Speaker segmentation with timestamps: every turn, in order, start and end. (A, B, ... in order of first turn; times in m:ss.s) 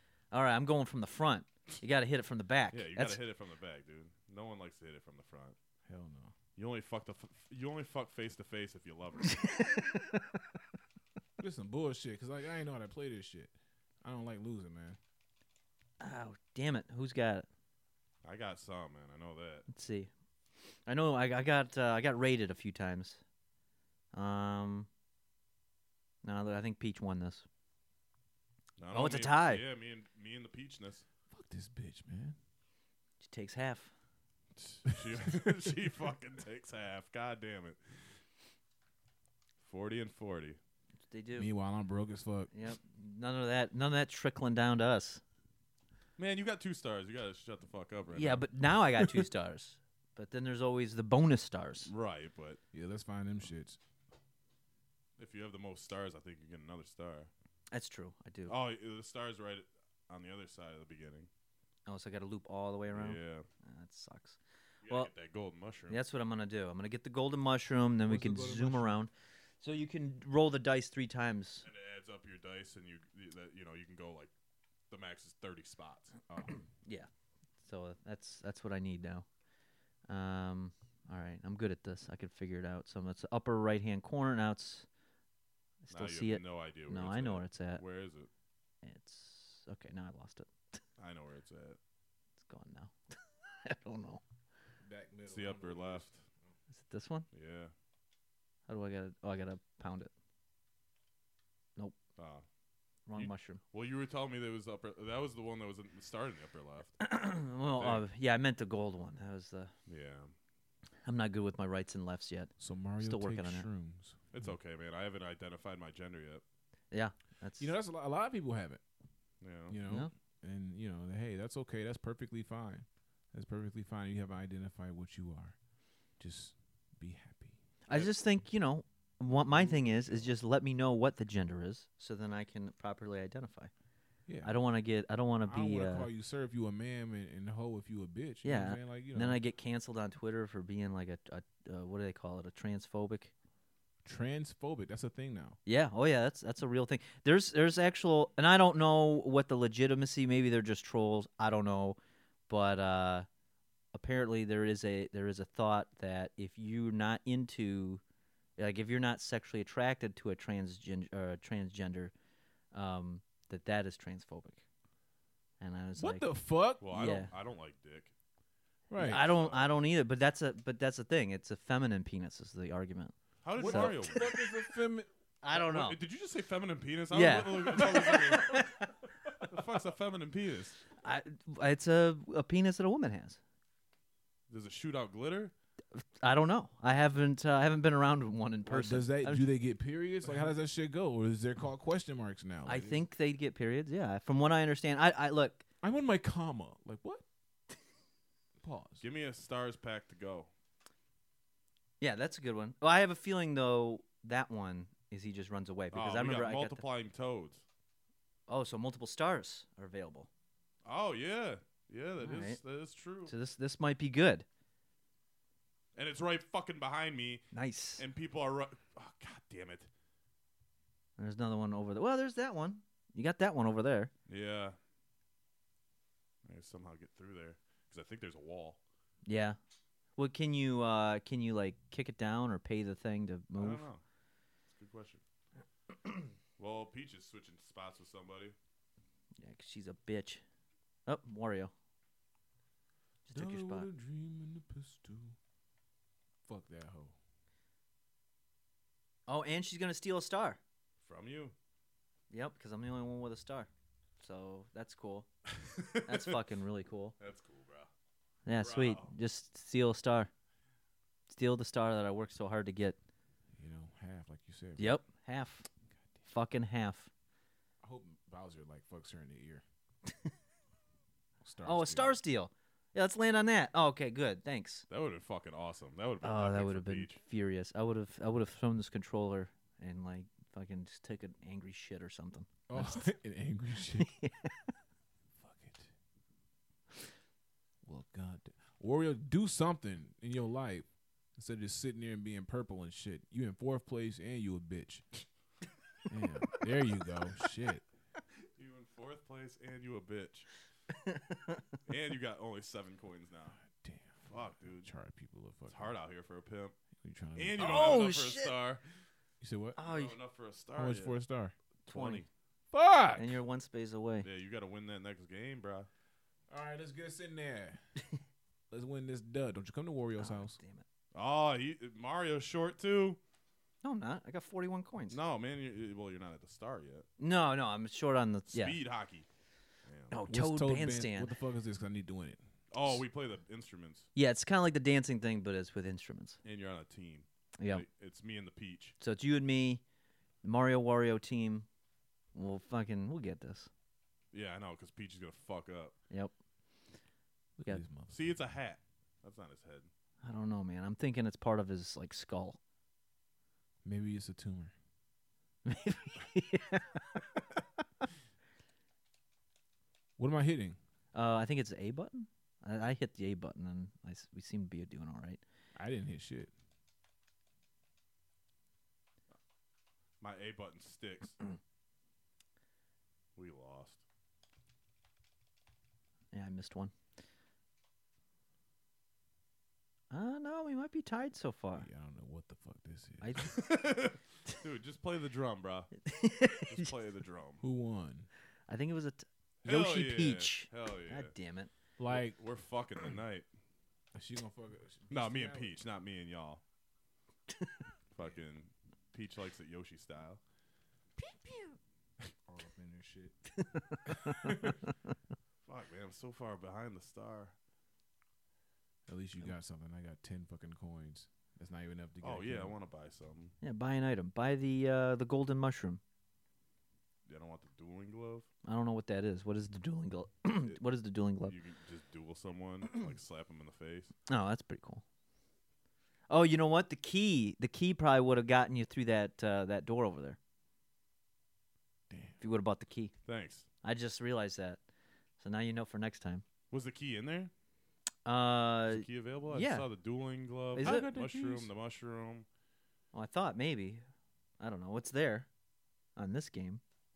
0:00.3-0:03.2 A
0:02.7-0:05.5 B
0:05.8-0:06.3 C
0:06.6-0:09.5 B
0:09.4-0:10.4 A
0:11.4-0:15.0 C
0:16.0-0:17.5 A
0:18.2-0:19.7 B
0:19.7-0:20.1 A
0:20.8-0:23.2 A
0:24.1-0:24.9 A
0:26.2-0:27.4 A
0:28.8-0:31.0 B
0:28.9-0:29.6 A
0:31.3-0:32.4 C
0:33.2-0:33.9 A
0:34.6-0:38.2 B
0:39.6-0:40.6 B
0:41.1-0:41.5 A
0:41.4-0:42.5 C
0:42.5-0:45.2 A
0:46.2-0:48.5 B
0:48.1-0:51.9 A
0:51.8-0:52.6 B
0:52.7-0:53.8 C
0:55.2-0:57.3 B
0:57.7-0:58.5 A
0:58.5-1:01.3 B
1:01.8-1:05.1 A
1:02.9-1:03.5 B
1:04.8-1:06.0 B
1:05.9-1:11.6 A
1:08.0-1:09.0 C
1:11.6-1:14.3 B
1:14.9-1:16.2 B
1:16.8-1:17.1 A
1:17.6-1:19.2 A
1:20.1-1:24.9 A
1:25.8-1:27.8 A
1:25.9-1:28.3 B
1:28.8-1:30.8 A
1:31.0-1:31.8 B
1:32.4-1:34.2 A
1:34.8-1:36.5 C
1:35.2-1:36.2 B
1:36.7-1:37.3 A
1:37.3-1:37.7 B
1:38.7-1:40.1 A
1:42.2-1:42.4 B
1:43.1-1:43.6 A
1:43.2-1:47.0 B
1:47.0-1:49.7 A
1:47.8-1:48.0 B
1:49.9-1:50.3 B
1:51.0-1:53.7 A
1:52.6-1:54.5 C
1:54.3-1:56.4 B
1:56.9-1:57.7 A
1:57.6-1:58.8 C
1:59.4-1:59.8 B
1:59.7-2:05.6 C
2:06.2-2:07.6 C
2:07.9-2:13.7 A
2:09.5-2:10.3 C
2:14.3-2:14.5 C
2:14.4-2:16.1 A
2:15.4-2:19.4 C
2:18.4-2:23.3 A
2:24.0-2:25.6 C
2:25.6-2:32.0 A
2:32.5-2:33.3 A
2:33.9-2:38.0 A
2:38.6-2:42.1 A
2:42.7-2:44.6 A
2:45.6-2:46.3 A
2:46.0-2:47.2 C
2:46.8-2:48.1 B
2:46.9-2:47.3 A
2:48.9-2:49.2 C
2:49.0-2:49.7 B
2:49.0-2:54.4 A
2:53.4-2:54.4 B
2:53.6-2:55.1 C
2:55.4-2:56.0 A
2:55.5-2:58.7 B
2:57.1-2:58.9 A
2:59.4-3:00.8 B
3:01.0-3:03.4 A
3:04.5-3:05.5 B
3:05.9-3:09.4 A
3:08.6-3:13.0 C
3:12.6-3:15.6 A
3:15.8-3:17.2 C
3:18.6-3:19.0 C
3:19.0-3:20.5 B
3:22.0-3:26.8 A
3:25.9-3:27.6 B
3:28.5-3:30.3 A
3:30.8-3:33.3 B
3:32.2-3:32.6 A
3:33.3-3:34.4 A
3:35.9-3:39.9 B
3:37.5-3:38.0 A
3:41.2-3:44.1 A
3:44.3-3:44.8 B
3:46.4-3:48.8 B
3:49.2-3:49.6 A
3:50.2-3:53.8 A
3:53.6-3:54.0 B
3:54.7-3:55.2 B
3:56.6-3:58.5 B
3:59.4-4:00.4 A
4:01.0-4:01.7 A
4:03.2-4:03.9 A
4:03.3-4:05.4 C
4:06.4-4:07.1 C
4:09.3-4:10.6 A
4:11.0-4:11.5 B
4:12.3-4:15.3 A
4:15.6-4:16.3 B
4:16.0-4:17.1 A
4:17.2-4:17.9 B
4:18.4-4:20.3 A
4:18.6-4:19.1 B
4:21.3-4:23.0 A
4:23.6-4:25.0 C
4:24.8-4:25.6 A
4:26.3-4:27.1 A
4:27.8-4:29.6 C
4:31.4-4:32.2 C
4:31.6-4:34.8 A
4:34.9-4:37.2 B
4:36.2-4:43.1 A
4:42.7-4:44.1 C
4:43.9-4:44.7 A
4:45.4-4:45.9 C
4:47.8-4:55.0 C
4:56.0-4:57.8 C
4:58.6-5:00.5 B
5:00.9-5:01.6 A
5:01.9-5:03.6 B
5:03.6-5:05.9 C
5:04.2-5:04.9 B
5:05.7-5:06.7 B
5:07.0-5:07.9 C
5:07.4-5:08.8 B
5:07.6-5:08.6 A
5:09.4-5:09.8 C
5:09.8-5:10.1 A
5:09.8-5:11.2 B
5:10.8-5:11.5 C
5:11.9-5:12.2 A
5:11.9-5:12.3 B
5:12.7-5:13.4 C
5:13.2-5:14.3 A
5:14.2-5:15.9 B
5:16.5-5:17.8 C
5:18.7-5:20.6 C
5:20.2-5:20.8 A
5:21.1-5:23.2 B
5:23.8-5:25.2 A
5:25.1-5:27.1 B
5:27.2-5:28.8 A
5:28.5-5:29.2 B
5:29.8-5:30.1 B
5:30.1-5:31.3 A
5:30.3-5:32.4 C
5:32.7-5:34.1 B
5:34.1-5:36.4 A
5:36.4-5:39.0 B
5:37.6-5:37.8 A
5:39.0-5:39.8 A
5:40.4-5:41.7 A
5:42.3-5:43.7 A
5:44.3-5:45.9 B
5:47.6-5:48.2 C
5:48.1-5:49.9 B
5:50.2-5:52.6 A
5:53.8-5:54.7 C
5:55.6-5:57.4 A
6:00.2-6:00.8 C
6:01.1-6:05.4 A
6:05.7-6:06.5 C
6:10.2-6:11.4 B
6:13.4-6:14.0 B
6:16.3-6:16.9 A
6:20.1-6:21.9 A
6:21.8-6:23.5 C
6:23.2-6:23.6 A
6:23.4-6:25.9 B
6:26.0-6:26.9 A
6:26.6-6:27.6 B
6:27.6-6:28.3 C
6:28.7-6:31.7 A
6:29.6-6:31.3 B
6:32.0-6:32.4 C
6:32.1-6:33.5 B
6:34.1-6:35.8 C
6:35.1-6:36.6 B
6:38.1-6:40.4 B
6:41.3-6:41.7 A
6:42.4-6:43.3 C
6:43.5-6:44.7 A
6:44.2-6:44.7 C
6:45.6-6:47.5 B
6:49.1-6:52.7 C
6:52.2-6:53.5 B
6:53.6-6:56.0 A
6:57.3-6:58.5 B
6:58.6-7:01.5 A
7:01.4-7:04.1 B
7:04.3-7:05.0 A
7:06.3-7:10.4 A
7:12.1-7:12.4 C
7:12.4-7:13.1 A
7:13.2-7:13.6 B
7:13.8-7:14.8 A
7:15.4-7:16.4 A
7:16.7-7:17.5 B
7:18.2-7:19.8 A
7:18.9-7:22.4 B
7:20.7-7:21.1 A
7:20.8-7:21.7 C
7:23.1-7:24.0 A
7:24.6-7:25.5 A
7:26.2-7:26.8 A